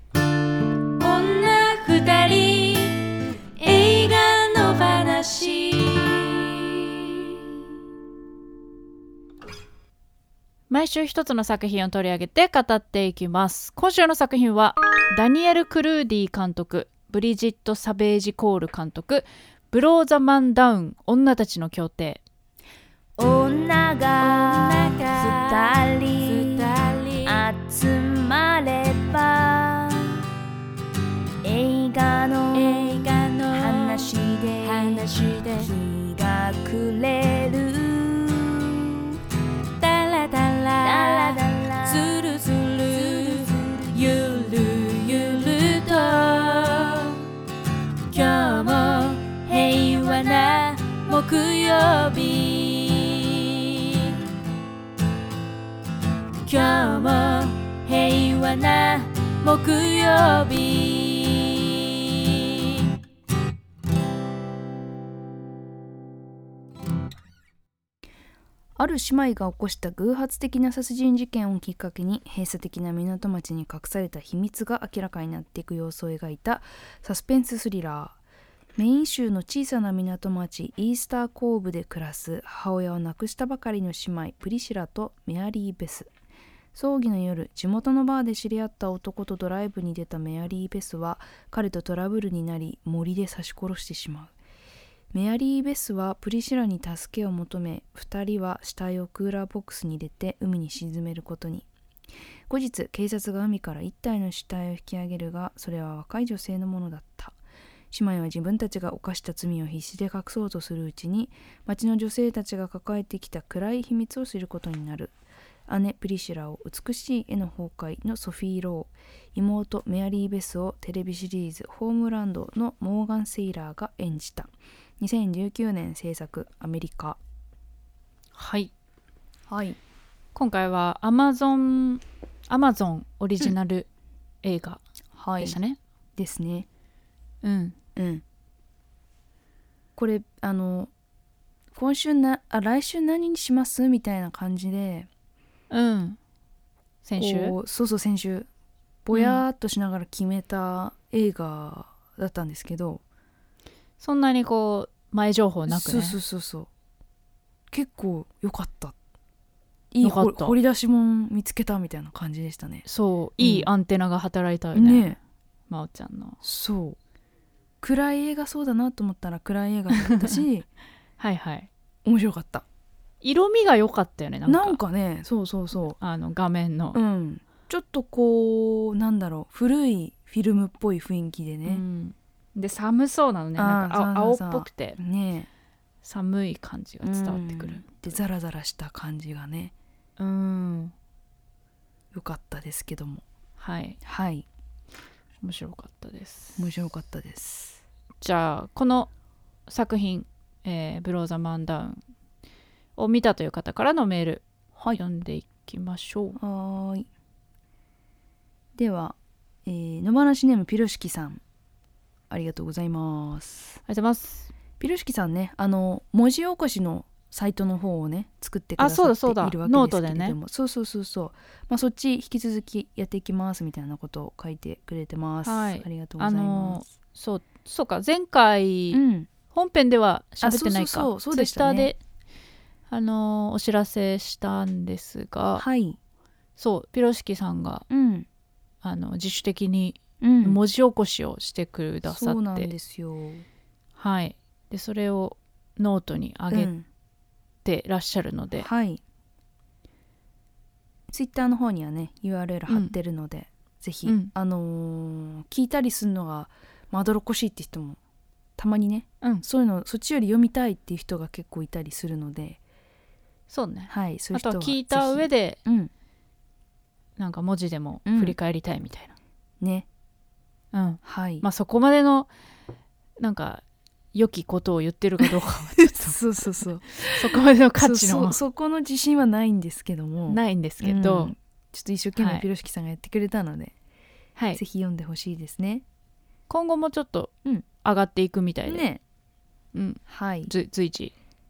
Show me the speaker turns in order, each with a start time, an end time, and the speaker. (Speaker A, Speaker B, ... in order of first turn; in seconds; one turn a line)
Speaker A: 1.0-2.7
Speaker B: 1.1-2.7
Speaker A: 3.6-5.8
Speaker B: 3.7-4.6
Speaker A: 10.7-22.2
Speaker C: 23.2-30.2
Speaker A: 24.3-25.3
Speaker B: 24.9-25.6
Speaker A: 26.2-27.4
Speaker C: 31.4-39.2
Speaker A: 32.7-33.9
Speaker B: 33.2-33.8
Speaker B: 34.8-35.4
Speaker A: 35.0-35.6
Speaker A: 39.8-47.0
Speaker B: 40.8-41.3
Speaker C: 40.8-42.1
Speaker B: 44.2-44.6
Speaker B: 45.2-46.8
Speaker B: 48.1-53.3
Speaker A: 48.1-50.3
Speaker B: 56.5-62.4
Speaker A: 56.8-57.2
Speaker C: 68.8-78.2
Speaker C: 78.8-86.1
Speaker C: 86.7-94.3
Speaker C: 95.1-101.7
Speaker C: 102.5-107.3
Speaker C: 107.9-115.1
Speaker C: 115.7-127.2
Speaker A: 128.3-128.7
Speaker C: 129.5-129.8
Speaker A: 130.3-133.9
Speaker A: 134.4-134.8
Speaker C: 135.1-135.6
Speaker A: 135.4-135.8
Speaker C: 136.2-136.7
Speaker A: 137.4-137.8
Speaker C: 137.9-138.2
Speaker C: 139.9-140.9
Speaker C: 141.7-145.1
Speaker A: 145.7-146.2
Speaker A: 147.0-147.6
Speaker C: 147.2-148.5
Speaker C: 149.0-153.0
Speaker A: 149.1-149.4
Speaker A: 154.0-156.2
Speaker C: 155.7-156.7
Speaker C: 157.7-158.9
Speaker C: 159.9-162.8
Speaker A: 160.0-160.6
Speaker A: 162.8-165.2
Speaker C: 163.4-163.7
Speaker C: 164.7-165.2
Speaker A: 165.7-166.4
Speaker C: 166.4-167.0
Speaker C: 167.8-170.7
Speaker A: 169.9-170.4
Speaker A: 171.2-171.7
Speaker C: 172.0-172.6
Speaker A: 173.2-174.8
Speaker C: 174.4-176.0
Speaker A: 176.0-177.0
Speaker C: 176.9-181.8
Speaker A: 181.7-185.0
Speaker C: 183.6-185.5
Speaker A: 186.0-187.9
Speaker C: 187.0-189.7
Speaker A: 190.2-190.9
Speaker C: 192.1-193.2
Speaker A: 193.6-194.0
Speaker C: 194.0-194.4
Speaker A: 195.4-196.7
Speaker C: 196.6-197.8
Speaker A: 198.2-199.1
Speaker A: 199.7-202.0
Speaker A: 203.0-206.4
Speaker C: 206.4-207.1
Speaker C: 208.8-211.4
Speaker C: 212.3-213.8
Speaker A: 213.9-214.5
Speaker C: 214.8-226.8
Speaker A: 218.8-220.4
Speaker A: 225.4-232.0
Speaker C: 228.9-229.3
Speaker C: 230.4-231.9
Speaker A: 232.9-235.6
Speaker C: 235.6-236.0
Speaker A: 236.6-237.8
Speaker C: 237.9-238.3
Speaker A: 238.8-242.7
Speaker C: 240.2-240.6
Speaker C: 242.1-243.4
Speaker A: 244.0-246.7
Speaker C: 246.5-246.8
Speaker A: 247.6-248.7
Speaker C: 248.6-249.0
Speaker C: 251.1-258.0
Speaker A: 252.7-252.9
Speaker A: 254.0-254.3
Speaker C: 258.6-262.6
Speaker A: 263.5-265.6
Speaker C: 263.9-265.9
Speaker A: 267.2-269.1
Speaker C: 268.1-268.4
Speaker C: 269.6-269.9
Speaker A: 270.7-272.3
Speaker C: 271.0-271.4
Speaker A: 273.2-273.6
Speaker A: 274.1-276.2
Speaker C: 275.2-283.7
Speaker A: 276.9-278.4
Speaker A: 280.3-281.3
Speaker A: 282.1-282.4
Speaker C: 284.5-285.8
Speaker A: 286.5-287.3
Speaker A: 287.8-288.8
Speaker C: 288.6-289.0
Speaker A: 289.7-291.1
Speaker C: 290.1-290.5